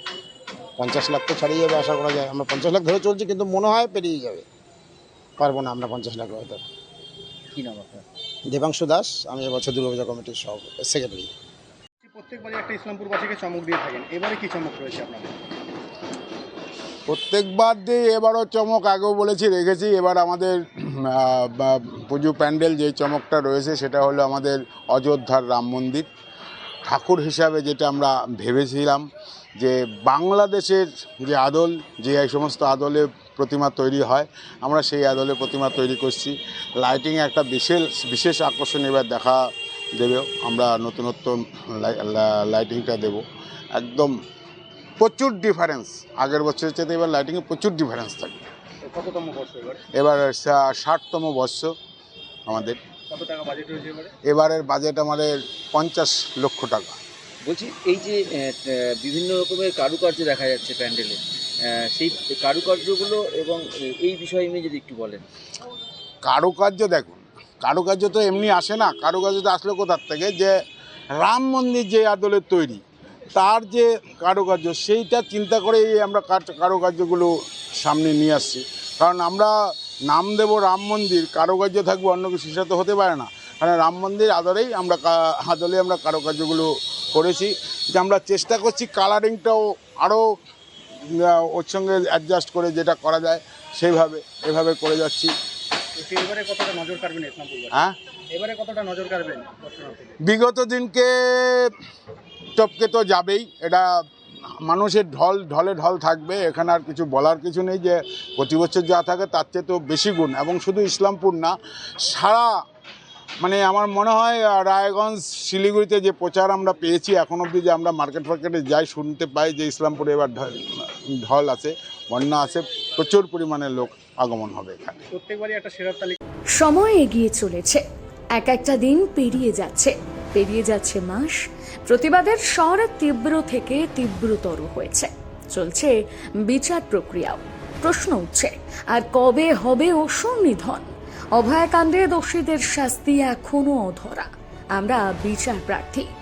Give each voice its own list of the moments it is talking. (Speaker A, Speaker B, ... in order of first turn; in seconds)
Speaker A: 0.8-4.5, 5.4-6.6, 8.5-11.3
Speaker B: 7.5-8.0, 57.5-65.2
Speaker C: 12.0-15.3, 48.8-49.8, 53.1-54.1, 96.0-97.7, 98.3-100.1, 125.1-126.2
Speaker D: 17.1-26.1, 26.9-29.1, 29.6-39.4, 40.0-43.2, 43.8-44.1, 45.0-48.4, 50.0-51.7, 52.5-52.8, 54.3-57.0, 66.2-70.5, 71.2-72.8, 73.3-77.3, 77.8-79.5, 80.1-90.2, 91.1-95.3, 100.2-101.7, 102.6-103.8, 104.7-111.5, 112.0-112.5, 113.4-125.0
Speaker E: 126.5-127.8, 128.3-146.1